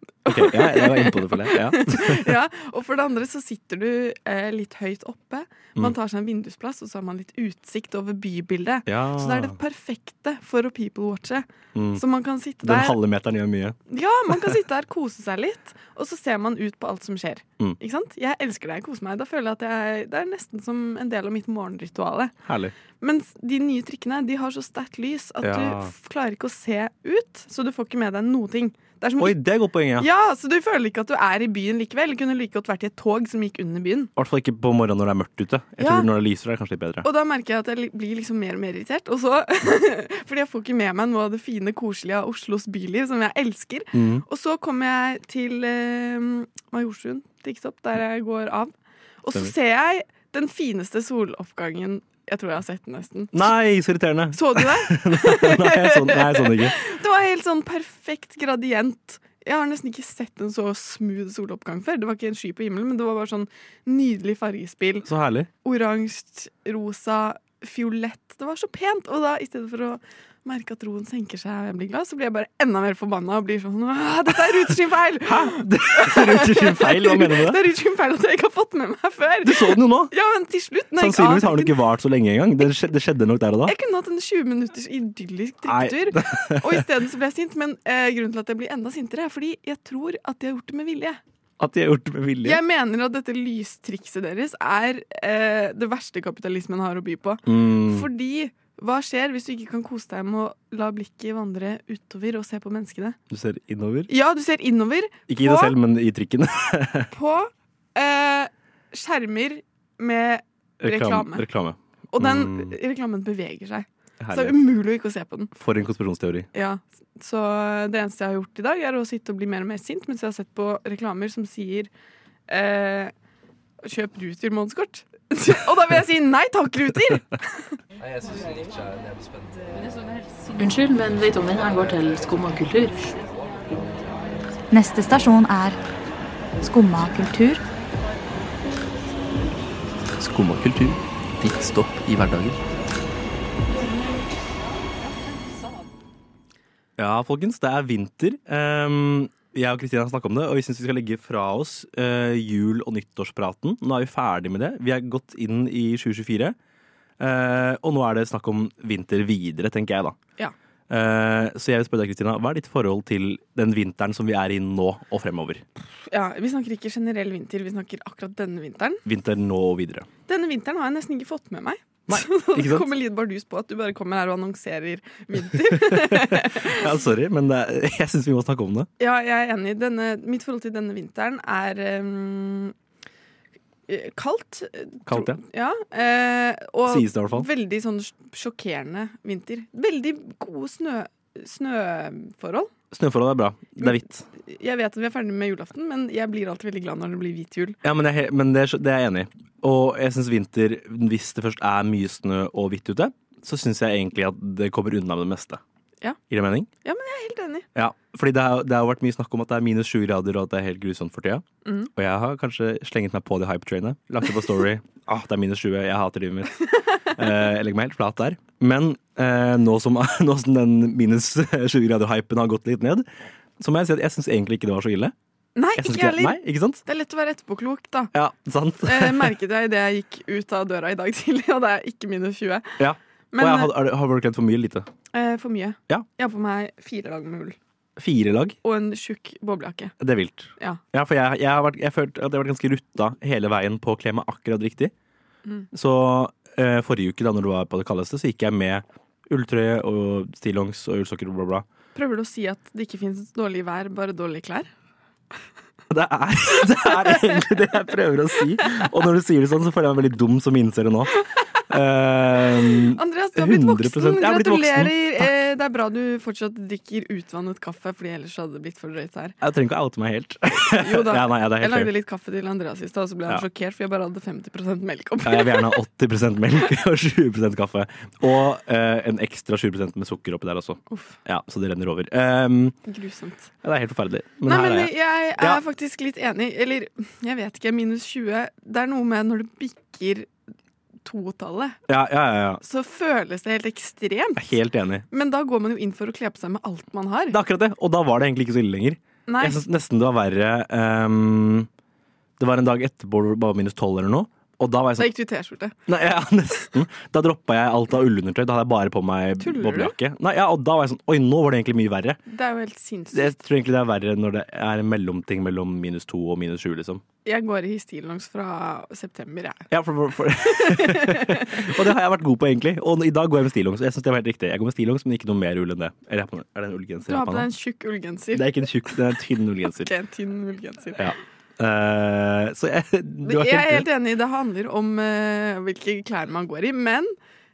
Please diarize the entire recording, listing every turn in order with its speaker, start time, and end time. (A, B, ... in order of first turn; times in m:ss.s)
0:00.2-0:13.0 A
0:00.3-0:02.3 B
0:08.8-0:09.6 B
0:11.7-0:12.0 B
0:12.6-0:13.8 B
0:13.9-0:22.3 A
0:22.4-0:22.7 B
0:23.0-0:29.4 A
0:25.4-0:25.9 B
0:29.2-0:30.1 B
0:30.0-0:34.1 A
0:34.2-0:37.1 B
0:35.8-0:36.1 A
0:37.0-0:53.4 A
0:43.9-0:44.2 B
0:53.3-0:56.8 B
0:54.3-1:05.1 A
1:05.0-1:05.5 B
1:05.6-1:21.8 A
1:14.3-1:17.6 B
1:19.4-1:20.1 B
1:21.0-1:23.7 B
1:23.6-1:31.2 A
1:25.6-1:26.8 B
1:31.6-1:32.6 B
1:32.4-1:43.2 A
1:37.4-1:38.1 B
1:43.3-1:44.1 B
1:44.1-1:45.7 A
1:45.3-1:47.1 B
1:47.1-1:51.4 A
1:50.8-1:52.7 B
1:52.1-1:55.5 A
1:54.2-1:54.6 B
1:55.5-1:56.5 B
1:56.5-2:01.9 A
2:02.5-2:03.1 A
2:03.8-2:07.7 A
2:10.6-2:13.2 C
2:14.7-2:15.8 D
2:16.6-2:17.6 D
2:20.2-2:22.6 E
2:27.0-2:36.6 B
2:37.2-2:40.2 B
2:40.9-2:45.6 B
2:46.1-2:49.0 A
2:49.0-2:50.1 B
2:50.3-2:56.9 A
2:52.1-2:52.9 B
2:55.5-2:58.9 B
2:59.0-3:02.7 A
3:03.9-3:12.7 A
3:05.0-3:05.4 B
3:06.9-3:07.5 B
3:12.9-3:14.2 B
3:13.8-3:17.8 A
3:17.8-3:25.6 B
3:26.3-3:26.7 B
3:26.8-3:27.7 A
3:27.7-3:43.1 B
3:31.6-3:31.9 A
3:43.6-3:45.1 B
3:45.6-3:48.1 A
3:45.8-3:46.8 B
3:48.1-3:49.4 B
3:48.8-3:52.8 A
3:52.8-3:54.9 B
3:53.3-3:53.7 A
3:55.1-3:57.6 A
3:58.0-3:58.6 B
3:58.6-3:59.9 A
4:00.0-4:04.9 B
4:05.7-4:11.6 B
4:11.9-4:14.7 A
4:15.9-4:25.3 B
4:16.6-4:17.6 A
4:22.6-4:29.4 A
4:29.4-4:31.9 B
4:30.7-4:35.8 A
4:35.2-4:42.8 B
4:40.9-4:41.2 A
4:42.8-4:43.5 A
4:43.6-4:45.6 B
4:44.4-4:50.3 A
4:51.0-4:51.8 A
4:51.9-4:52.6 B
4:52.6-4:54.6 A
4:54.4-4:55.0 B
4:55.1-4:57.4 A
4:57.3-5:01.7 B
4:59.3-4:59.6 A
5:02.4-5:05.1 B
5:05.0-5:05.7 A
5:05.9-5:12.2 B
5:09.4-5:09.9 A
5:12.3-5:13.4 A
5:13.1-5:17.0 B
5:17.2-5:19.7 A
5:19.7-5:27.5 B
5:20.4-5:21.8 A
5:27.0-5:28.7 A
5:28.3-5:29.9 B
5:29.8-5:31.2 A
5:31.0-5:33.9 B
5:33.2-5:37.1 A